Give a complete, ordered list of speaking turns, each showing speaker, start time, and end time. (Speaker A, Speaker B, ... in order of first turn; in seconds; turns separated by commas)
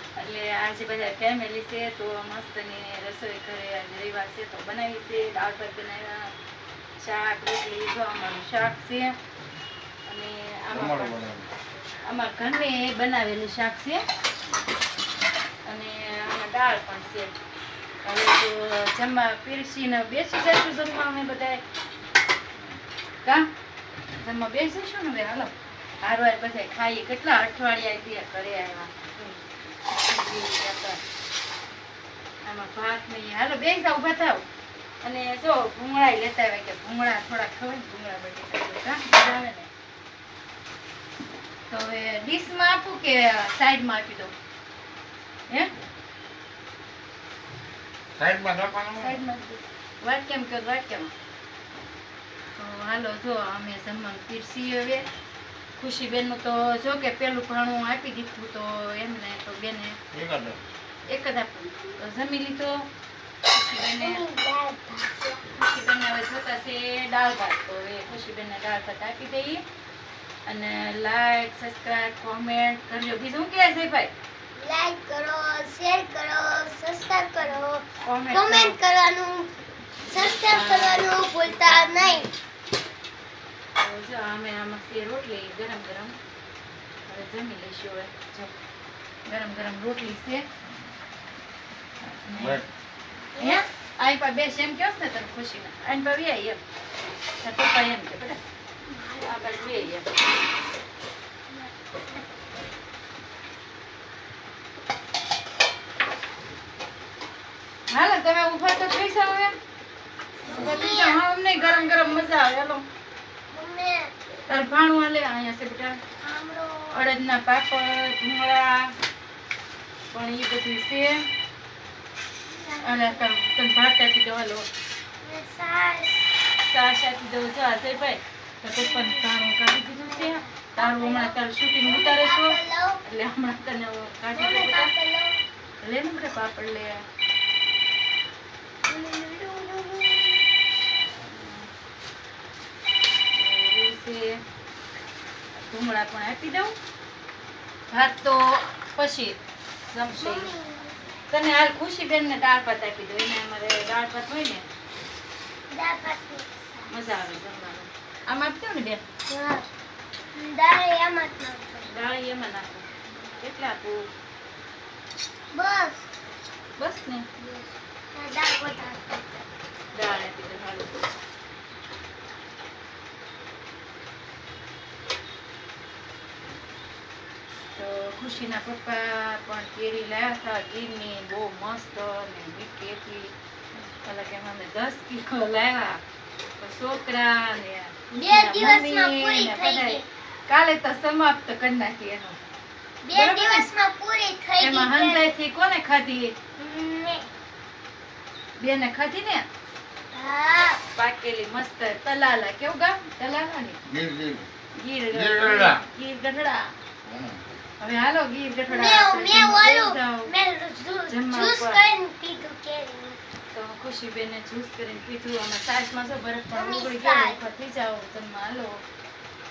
Speaker A: 0.2-6.3, Speaker A: 7.0-9.1, Speaker A: 10.1-11.2, Speaker B: 10.7-11.5, Speaker A: 12.1-14.0, Speaker A: 15.7-17.3, Speaker A: 18.0-21.6, Speaker A: 24.2-31.0, Speaker A: 32.4-34.4, Speaker A: 35.0-39.7, Speaker A: 41.7-44.3, Speaker B: 48.2-49.2, Speaker A: 49.0-51.1, Speaker A: 52.6-55.1, Speaker A: 55.8-60.0, Speaker B: 60.1-60.6, Speaker A: 61.1-62.9, Speaker A: 63.5-64.2, Speaker C: 64.0-65.4, Speaker A: 65.5-69.6, Speaker A: 70.5-74.1, Speaker C: 74.6-79.5, Speaker A: 78.0-78.8, Speaker C: 80.1-82.3, Speaker A: 80.2-82.3, Speaker A: 83.8-86.1, Speaker A: 87.1-88.5, Speaker A: 89.3-90.5, Speaker A: 92.0-92.6, Speaker B: 92.4-92.7, Speaker C: 93.4-93.7, Speaker A: 93.4-96.6, Speaker A: 97.4-98.4, Speaker C: 98.9-99.9, Speaker A: 99.2-100.1, Speaker A: 107.9-109.5, Speaker C: 110.4-112.3, Speaker A: 110.5-112.8, Speaker C: 113.5-114.1, Speaker A: 114.5-116.0, Speaker C: 116.2-117.0, Speaker A: 116.9-118.9, Speaker A: 120.1-121.2, Speaker C: 122.5-123.3, Speaker A: 122.8-124.7, Speaker C: 125.2-126.3, Speaker A: 126.6-134.9, Speaker C: 128.8-129.2, Speaker C: 130.0-133.0, Speaker C: 134.3-135.4, Speaker A: 135.8-137.0, Speaker C: 138.9-140.5, Speaker A: 141.2-141.6, Speaker A: 143.3-144.4, Speaker A: 145.6-146.7, Speaker A: 147.9-150.6, Speaker C: 150.2-150.9, Speaker A: 151.3-154.7, Speaker C: 155.7-156.9, Speaker A: 156.9-159.0, Speaker C: 159.3-159.7, Speaker C: 160.3-161.9, Speaker A: 161.8-164.1, Speaker C: 165.5-166.0, Speaker A: 166.8-167.3, Speaker C: 167.4-169.2, Speaker A: 169.9-170.9, Speaker A: 177.7-183.3, Speaker A: 183.9-186.0, Speaker A: 186.6-192.4, Speaker C: 188.1-190.1, Speaker C: 193.0-195.3, Speaker A: 193.1-193.7, Speaker A: 194.6-196.3, Speaker C: 196.6-197.2, Speaker A: 198.6-199.5, Speaker C: 200.1-200.8, Speaker A: 200.9-203.8, Speaker B: 203.9-204.5, Speaker A: 204.8-206.7, Speaker B: 205.1-205.8, Speaker B: 207.1-207.4, Speaker A: 207.8-210.3, Speaker C: 208.7-213.2, Speaker A: 211.1-211.8, Speaker A: 213.5-218.8, Speaker C: 216.5-217.4